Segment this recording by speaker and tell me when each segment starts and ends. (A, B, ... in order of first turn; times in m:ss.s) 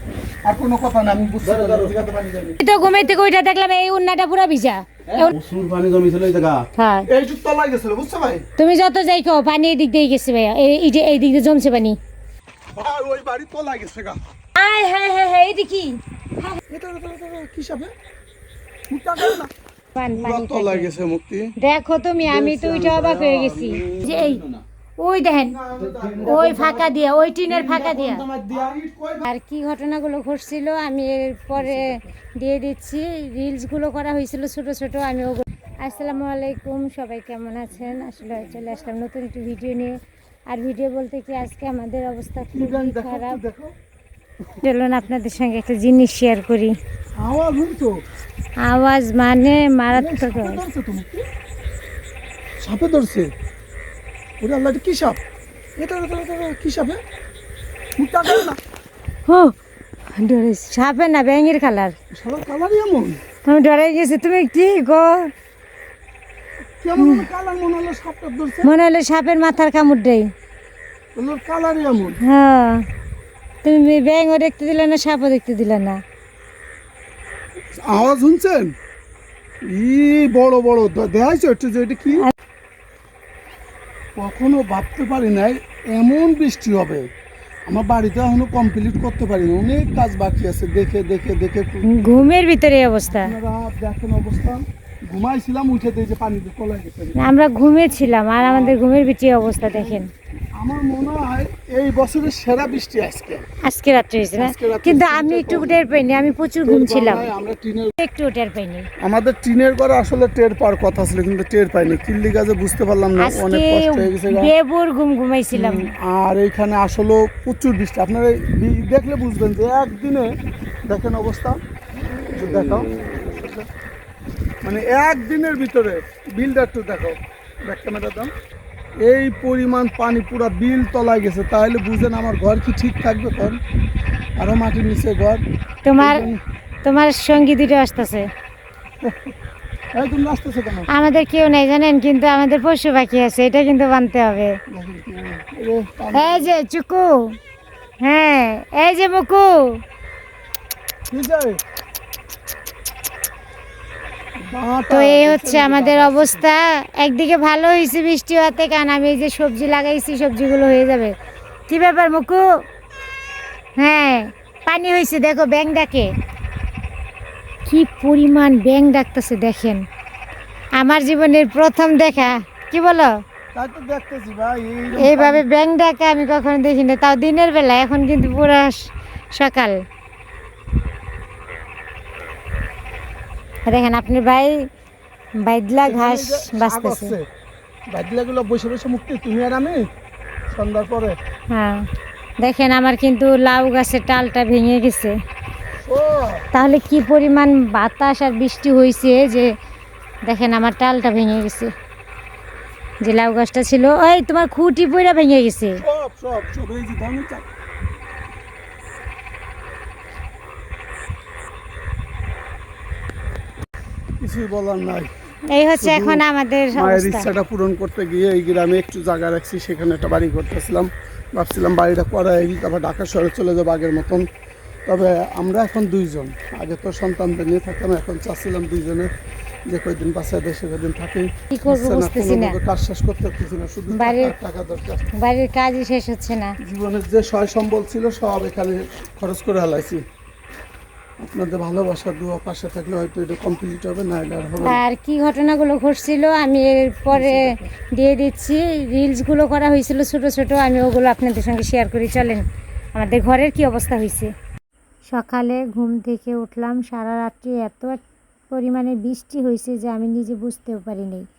0:00.4-0:03.0 A
0:01.4-0:01.9 B
0:02.6-0:05.3 C
0:05.1-0:06.6 B
0:06.8-0:07.1 C
0:07.1-0:08.4 A
0:08.6-0:12.0 C
0:12.7-0:14.2 A
0:14.6-0:16.6 C
0:16.7-0:17.9 A
0:18.9-0:19.5 A
0:19.9-0:20.9 C
0:20.1-0:21.5 A
0:21.6-0:24.4 C
0:22.3-0:24.6 B
0:25.0-0:25.6 C
0:25.4-0:27.0 A
0:25.8-0:26.8 B
0:26.2-0:28.2 C
0:27.5-0:28.8 B
0:28.5-0:29.3 A
0:29.2-0:40.0 C
0:38.2-0:38.6 A
0:40.5-0:43.4 C
0:42.5-0:43.7 A
0:44.6-0:46.8 C
0:47.2-0:48.0 A
0:48.6-0:50.6 C
0:49.9-0:51.2 A
0:52.6-0:53.3 A
0:54.4-0:55.2 A
0:55.8-0:57.0 A
0:58.0-0:58.6 A
0:59.3-0:59.5 C
1:00.1-1:01.9 C
1:02.1-1:03.2 A
1:03.4-1:05.3 C
1:06.8-1:08.7 A
1:07.0-1:07.2 C
1:08.6-1:10.3 C
1:11.1-1:12.2 A
1:12.2-1:12.8 C
1:13.6-1:16.0 C
1:17.8-1:18.7 A
1:19.6-1:22.2 A
1:24.2-1:27.1 A
1:27.7-1:32.0 A
1:31.9-1:33.3 C
1:33.1-1:37.2 A
1:37.2-1:40.1 C
1:38.4-1:38.8 A
1:39.7-1:40.0 A
1:40.6-1:43.4 A
1:43.6-1:47.3 C
1:44.4-1:45.8 A
1:46.6-1:47.9 A
1:48.0-1:48.9 C
1:49.0-1:54.5 A
1:53.2-1:55.9 C
1:55.5-2:00.3 A
2:00.8-2:01.6 A
2:02.3-2:03.7 A
2:04.6-2:08.3 A
2:09.0-2:13.6 A
2:14.4-2:15.4 A
2:15.8-2:16.3 C
2:16.0-2:16.4 A
2:16.8-2:18.3 C
2:19.0-2:19.3 A
2:19.9-2:20.9 A
2:20.9-2:24.6 C
2:24.7-2:26.5 A
2:26.1-2:27.4 C
2:28.0-2:29.8 C
2:31.1-2:31.6 A
2:34.4-2:36.4 A
2:34.9-2:41.1 C
2:41.7-2:42.4 C
2:43.8-2:46.1 C
2:47.6-2:49.8 C
2:50.8-2:53.1 C
2:53.5-2:55.4 A
2:55.0-2:59.8 C
3:03.7-3:04.6 C
3:05.4-3:07.1 C
3:05.8-3:07.3 A
3:07.9-3:09.9 A
3:10.5-3:11.2 A
3:11.5-3:11.8 C
3:12.4-3:15.2 C
3:15.8-3:16.4 A
3:16.5-3:19.5 C
3:20.2-3:21.7 C
3:23.0-3:25.8 C
3:25.8-3:27.5 A
3:34.2-3:35.1 A
3:35.5-3:37.3 C
3:35.8-3:36.2 A
3:36.7-3:44.3 A
3:44.8-3:49.1 A
3:49.6-3:55.0 A
3:51.5-3:52.6 C
3:53.9-3:54.3 C
3:55.2-3:56.5 C
3:56.6-4:00.0 A
4:01.2-4:04.8 A
4:04.6-4:12.4 C
4:07.1-4:07.7 A
4:12.9-4:14.3 C
4:15.1-4:18.0 C
4:18.5-4:21.2 C